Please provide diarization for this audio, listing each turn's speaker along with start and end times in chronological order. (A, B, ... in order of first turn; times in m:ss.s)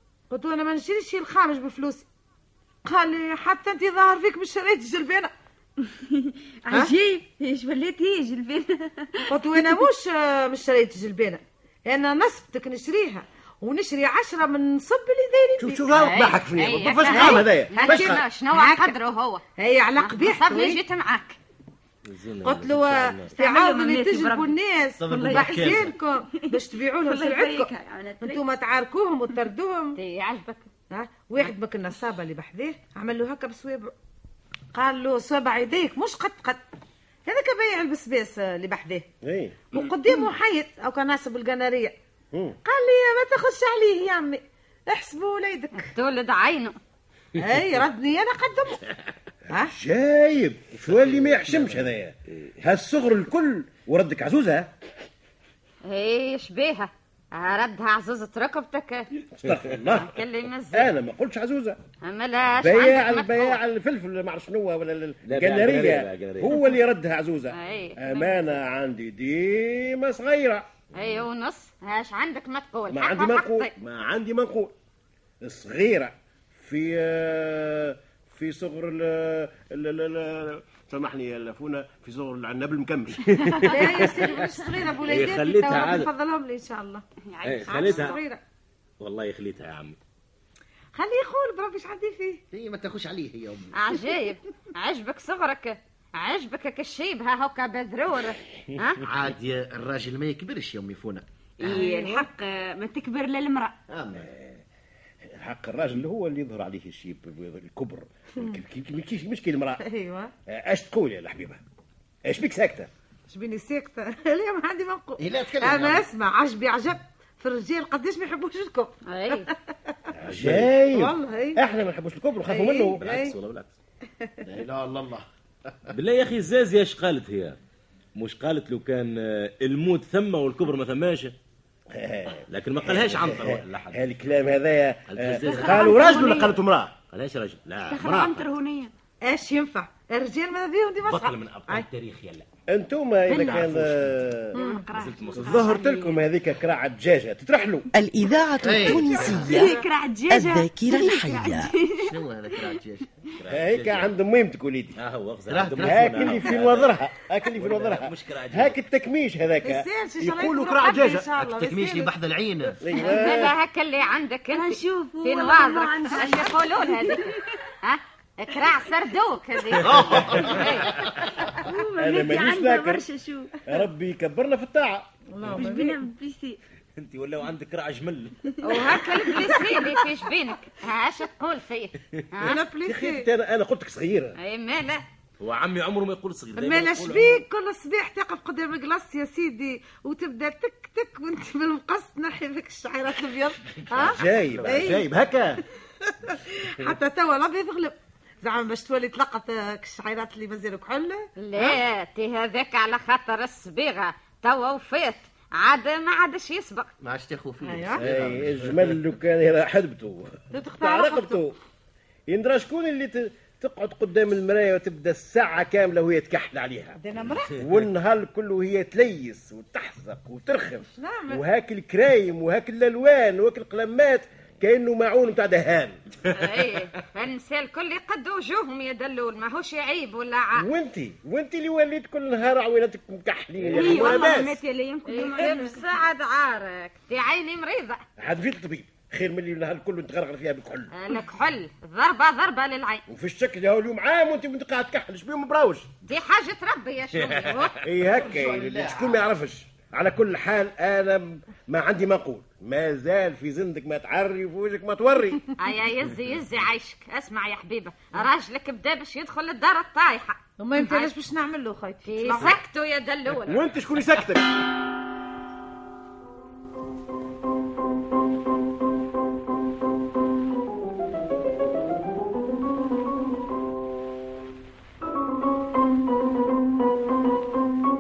0:00.3-0:02.1 A
0:02.8-0:05.3 A
0:06.1-0:09.3 B
0:09.3-0:15.8 A
0:15.6-0:18.2 C
0:16.0-0:19.4 D
0:17.0-0:18.9 A
0:19.6-0:20.8 A
0:20.0-0:21.4 D
0:22.1-0:23.4 E
0:22.4-0:30.0 A
0:23.4-0:24.6 B
0:25.0-0:25.9 F
0:25.1-0:28.4 B
0:30.0-0:30.6 D
0:30.9-0:33.9 A
0:34.7-0:36.6 A
0:37.3-0:39.1 A
0:39.2-0:39.6 C
0:39.7-0:42.0 A
0:42.6-0:45.9 A
0:45.8-0:46.8 D
0:47.4-0:48.8 A
0:49.5-0:49.7 A
0:49.7-0:54.7 C
0:50.8-0:51.9 E
0:55.9-0:59.1 D
0:59.4-1:00.1 C
1:00.0-1:00.9 D
1:00.7-1:01.8 C
1:02.0-1:03.6 D
1:02.6-1:10.7 C
1:05.3-1:06.6 E
1:07.5-1:08.6 D
1:10.9-1:11.3 E
1:11.0-1:13.7 D
1:12.9-1:14.7 C
1:15.4-1:23.2 C
1:23.3-1:24.5 E
1:23.6-1:27.0 A
1:25.0-1:26.1 E
1:27.3-1:28.2 B
1:27.4-1:28.2 E
1:27.7-1:28.4 A
1:29.0-1:30.0 E
1:30.9-1:32.4 A
1:32.5-1:33.8 F
1:33.8-1:39.0 D
1:39.0-1:41.8 F
1:41.6-1:43.8 B
1:41.7-1:42.3 A
1:43.9-1:44.3 F
1:44.2-1:44.6 C
1:45.3-1:49.8 C
1:49.8-1:50.3 A
1:50.5-1:51.6 C
1:52.3-1:52.9 C
1:53.3-2:00.0 A
1:55.2-1:56.0 F
1:59.1-1:59.5 D
2:00.2-2:03.0 C
2:00.2-2:00.7 E
2:00.9-2:01.6 A
2:02.4-2:03.3 A
2:03.0-2:03.7 E
2:04.2-2:04.5 A
2:04.4-2:05.9 F
2:05.9-2:07.6 E
2:08.2-2:11.3 E
2:11.9-2:16.9 C
2:12.5-2:14.0 E
2:15.1-2:16.1 E
2:15.5-2:16.5 B
2:17.1-2:18.5 E
2:17.8-2:18.9 B
2:19.2-2:21.9 A
2:21.0-2:22.5 E
2:22.7-2:24.6 C
2:23.3-2:23.6 B
2:23.4-2:24.2 E
2:24.5-2:26.2 B
2:24.6-2:24.8 A
2:24.9-2:25.5 E
2:25.3-2:27.9 C
2:27.9-2:29.7 G
2:28.6-2:29.8 F
2:29.1-2:32.8 B
2:30.3-2:31.7 G
2:32.0-2:33.1 F
2:33.4-2:34.1 E
2:33.5-2:34.9 C
2:35.0-2:37.0 E
2:35.5-2:36.5 F
2:35.8-2:41.3 C
2:37.6-2:38.8 E
2:39.6-2:42.1 A
2:41.3-2:42.8 F
2:42.8-2:43.5 C
2:43.0-2:47.3 D
2:44.5-2:47.4 B
2:47.8-2:50.9 D
2:49.8-2:50.8 F
2:50.0-2:50.5 E
2:51.4-2:53.6 B
2:52.0-2:53.0 C
2:53.6-2:55.1 C
2:55.3-2:56.0 A
2:55.5-2:56.6 B
2:57.0-2:58.4 E
2:58.5-2:58.9 B
2:58.6-3:02.6 D
2:58.7-3:00.0 A
3:02.4-3:03.3 A
3:02.8-3:04.4 C
3:04.4-3:05.0 D
3:05.4-3:07.4 E
3:06.6-3:15.0 A
3:13.9-3:14.8 E
3:14.1-3:15.6 C
3:16.1-3:21.8 A
3:21.4-3:26.9 D
3:27.0-3:29.0 F
3:27.6-3:28.0 A
3:28.0-3:31.6 C
3:30.5-3:31.4 A
3:32.3-3:37.0 C
3:37.0-3:37.5 A
3:37.6-3:46.0 C
3:41.0-3:41.4 A
3:46.3-3:50.7 D
3:50.6-3:54.6 C
3:53.8-3:55.8 B
3:55.1-3:58.0 D
3:58.2-4:00.9 C
4:01.0-4:03.0 D
4:03.1-4:05.9 C
4:06.1-4:07.8 D
4:07.3-4:07.7 E
4:07.8-4:15.5 C
4:08.1-4:09.2 F
4:15.6-4:21.1 D
4:20.6-4:22.6 A
4:22.1-4:23.6 D
4:23.5-4:24.5 C